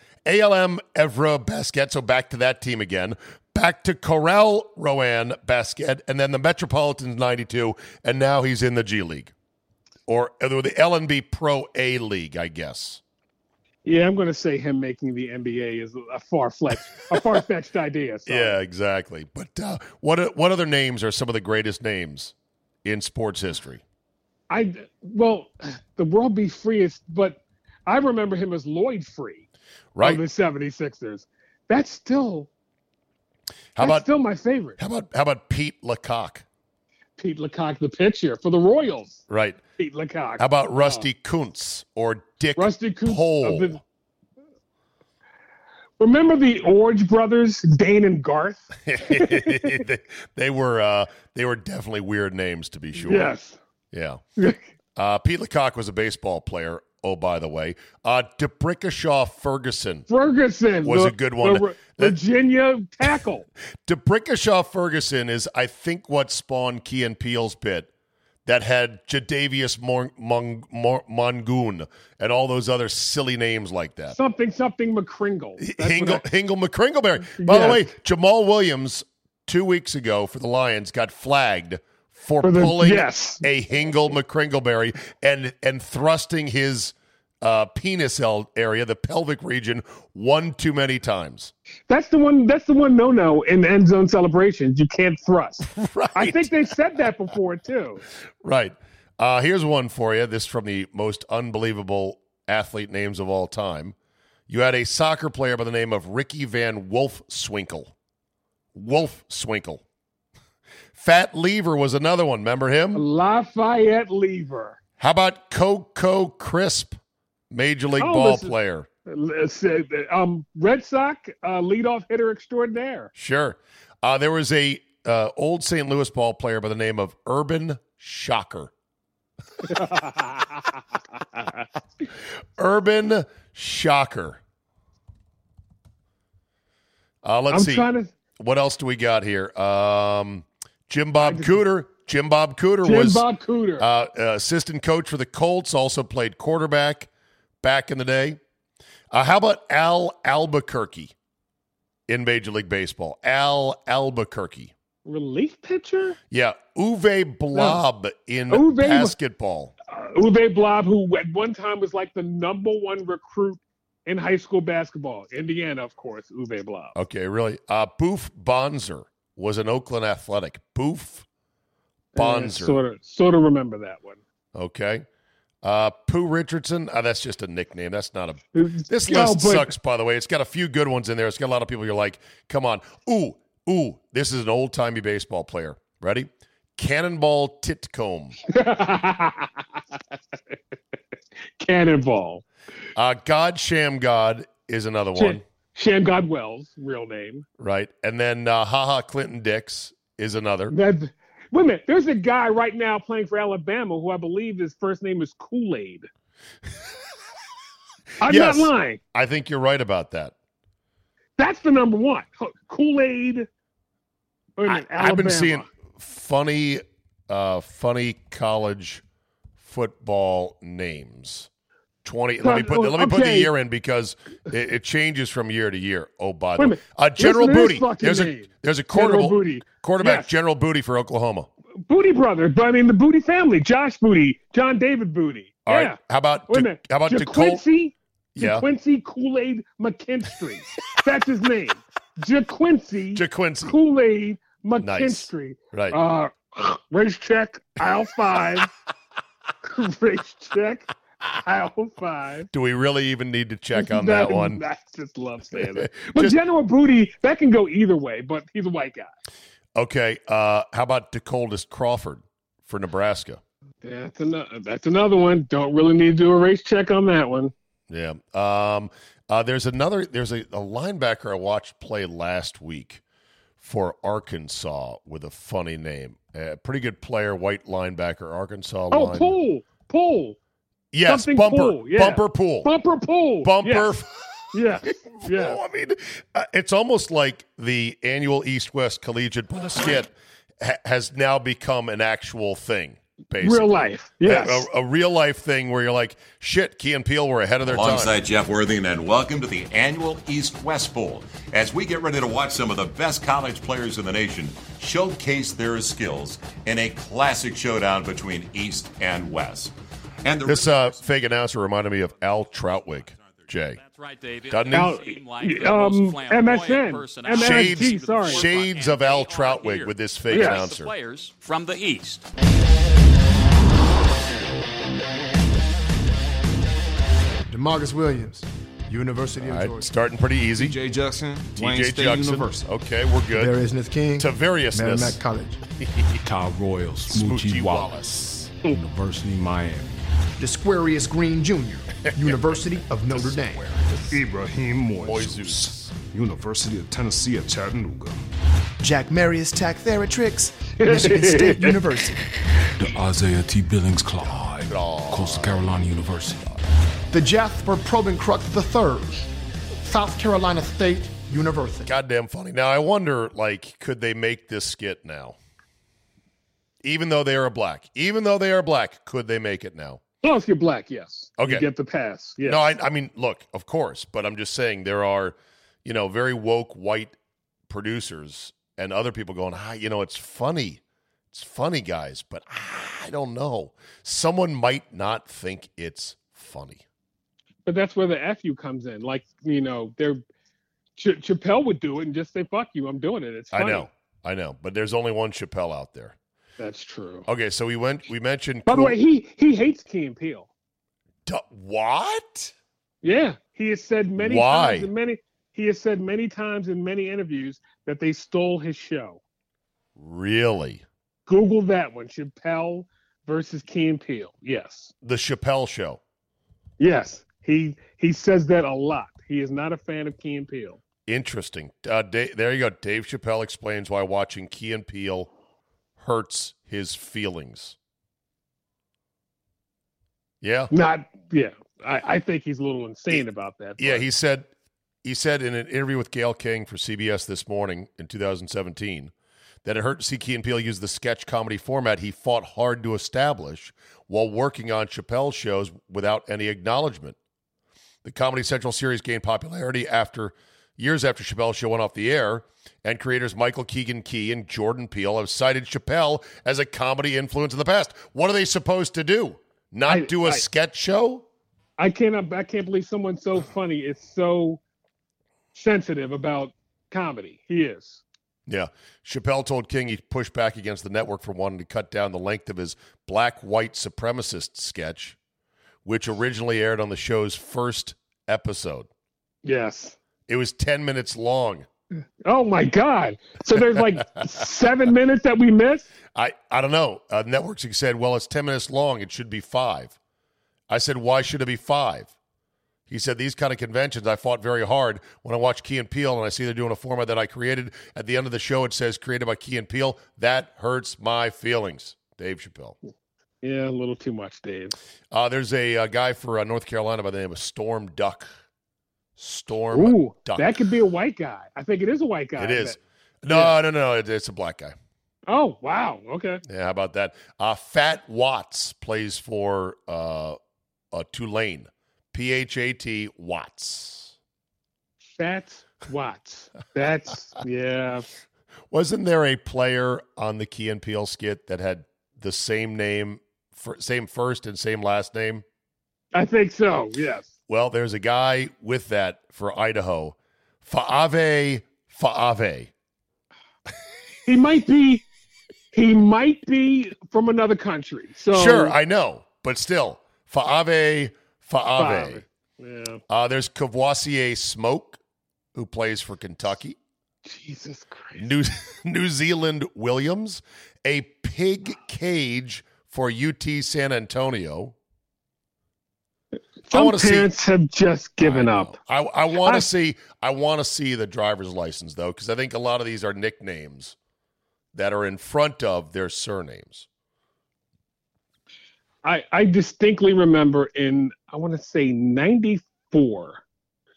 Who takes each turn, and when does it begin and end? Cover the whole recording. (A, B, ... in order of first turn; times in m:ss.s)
0:00.2-0:09.3 A
0:10.1-0:13.0 A
0:13.8-0:18.6 B
0:17.1-0:17.4 A
0:18.3-0:22.3 A
0:22.8-0:23.8 A
0:24.5-0:29.5 B
0:30.0-0:30.2 A
0:30.0-0:32.5 B
0:33.8-0:34.0 A
0:33.8-0:34.8 B
0:34.8-0:36.4 A
0:37.2-0:39.2 B
0:39.3-0:39.6 A
0:39.8-0:41.0 B
0:40.4-0:43.8 A
0:42.6-0:43.8 B
0:46.0-0:49.8 B
0:48.8-0:53.3 A
0:53.0-0:53.6 B
0:53.9-0:54.2 A
0:55.0-1:00.1 A
1:00.1-1:03.5 B
1:00.8-1:02.2 A
1:03.8-1:07.9 A
1:08.4-1:14.1 A
1:14.1-1:16.2 B
1:15.6-1:31.5 A
1:17.4-1:17.9 B
1:22.4-1:23.4 B
1:31.9-1:38.0 B
1:35.7-1:36.7 A
1:38.4-1:43.9 A
1:44.5-1:47.9 A
1:48.7-1:49.8 A
1:51.0-1:53.0 A
1:52.9-1:54.8 B
1:55.0-1:57.0 A
1:57.5-1:58.9 A
1:58.0-1:58.5 B
1:59.0-2:03.1 B
2:03.2-2:08.7 A
2:09.7-2:10.8 B
2:11.3-2:11.6 B
2:12.6-2:14.4 A
2:17.2-2:17.8 A
2:17.5-2:18.1 B
2:18.4-2:23.2 A
2:21.2-2:21.5 B
2:22.8-2:23.8 B
2:23.8-2:27.1 A
2:27.6-2:28.4 A
2:29.1-2:31.1 A
2:32.1-2:34.7 A
2:35.0-2:36.2 B
2:36.3-2:39.7 A
2:37.5-2:37.8 B
2:38.5-2:39.1 B
2:39.9-2:46.9 B
2:46.9-2:51.2 A
2:52.1-2:54.2 B
2:52.2-2:52.8 A
2:54.5-2:55.0 A
2:55.6-3:08.4 A
2:58.6-2:59.7 B
3:08.5-3:09.6 B
3:11.6-3:12.4 B
3:12.9-3:15.4 A
3:15.2-3:17.4 B
3:17.6-3:20.7 A
3:20.7-3:26.1 B
3:28.2-3:29.0 B
3:28.2-3:30.3 A
3:31.4-3:33.5 B
3:34.6-3:35.6 B
3:34.7-3:39.0 A
3:39.6-3:41.5 A
3:42.0-3:51.5 A
3:42.4-3:43.5 B
3:46.6-3:50.3 B
3:51.9-3:56.0 B
3:55.6-3:57.6 A
3:56.5-4:08.7 B
3:58.4-3:58.7 A
4:03.1-4:03.7 A
4:04.8-4:06.0 A
4:09.6-4:10.9 B
4:11.4-4:12.5 B
4:12.5-4:14.6 A
4:13.7-4:19.1 B
4:15.5-4:16.4 A
4:19.8-4:23.4 A
4:23.8-4:27.5 B
4:27.9-4:33.0 A
4:33.6-4:39.3 A
4:38.9-4:40.4 B
4:40.9-4:42.7 A
4:41.0-4:43.9 B
4:43.4-4:53.7 A
4:44.5-4:45.6 B
4:53.4-4:54.7 B
4:54.2-4:58.1 A
4:57.6-5:10.9 C
5:10.4-5:13.8 A
5:13.8-5:22.2 D
5:14.5-5:15.0 A
5:14.7-5:18.5 B
5:17.4-5:20.9 A
5:20.3-5:20.7 B
5:27.5-5:29.9 E
5:29.4-5:30.8 A
5:30.6-5:32.6 F
5:31.5-5:33.6 A
5:33.3-5:35.6 E
5:34.2-5:35.2 A
5:35.9-5:36.2 A
5:36.2-5:38.0 F
5:37.1-5:38.5 A
5:38.7-5:40.0 F
5:40.4-5:43.7 E
5:43.5-5:44.1 A
5:44.0-5:48.2 F
5:44.9-5:45.9 A
5:48.8-5:52.2 E
5:50.8-5:51.7 B
5:52.8-5:56.5 F
5:54.2-5:55.7 A
5:57.1-5:59.3 E
5:59.8-6:01.9 E
6:01.8-6:05.4 A
6:06.8-6:10.0 A
6:10.2-6:12.7 B
6:11.4-6:11.6 A
6:12.4-6:17.1 A
6:17.7-6:26.8 A
6:27.6-6:30.2 B
6:31.0-6:33.9 B
6:33.5-6:36.2 A
6:36.6-6:37.2 B
6:37.3-6:39.0 A
6:38.6-6:40.5 B
6:41.2-6:42.5 A
6:43.0-6:49.2 B
6:44.2-6:44.9 A
6:50.0-6:50.8 A
6:51.3-6:54.9 B
6:55.0-6:56.0 A
6:56.8-7:00.8 B
7:01.0-7:05.3 A
7:06.0-7:07.8 A
7:10.4-7:10.7 A
7:10.7-7:14.0 B
7:13.8-7:14.5 A
7:15.0-7:19.1 A
7:19.6-7:27.2 A
7:28.0-7:41.2 A
7:39.9-7:40.4 B
7:41.8-7:44.6 B
7:45.5-7:48.0 B
7:48.5-7:55.2 A
7:55.8-7:58.9 A
7:59.4-8:00.0 B
8:00.3-8:01.6 A
8:02.2-8:05.8 B
8:06.1-8:10.0 A
8:10.7-8:12.1 A
8:12.9-8:22.8 A
8:23.4-8:24.8 B
8:25.1-8:28.3 A
8:29.2-8:30.5 A
8:29.7-8:32.8 B
8:32.4-8:34.7 A
8:33.3-8:33.6 B
8:35.3-8:36.4 B
8:36.4-8:40.4 A
8:40.9-8:44.1 A
8:45.1-8:48.1 B
8:48.7-8:55.4 A
8:56.1-8:57.3 B
8:57.5-9:02.7 A
9:04.2-9:05.0 B
9:05.7-9:08.8 B
9:08.3-9:12.2 A
9:11.8-9:13.0 B
9:13.1-9:15.0 A
9:15.5-9:16.8 A
9:17.2-9:18.2 B
9:18.2-9:24.7 A
9:26.7-9:28.8 B
9:26.7-9:27.3 A
9:28.2-9:34.0 A
9:34.7-9:36.9 A
9:39.0-9:43.4 B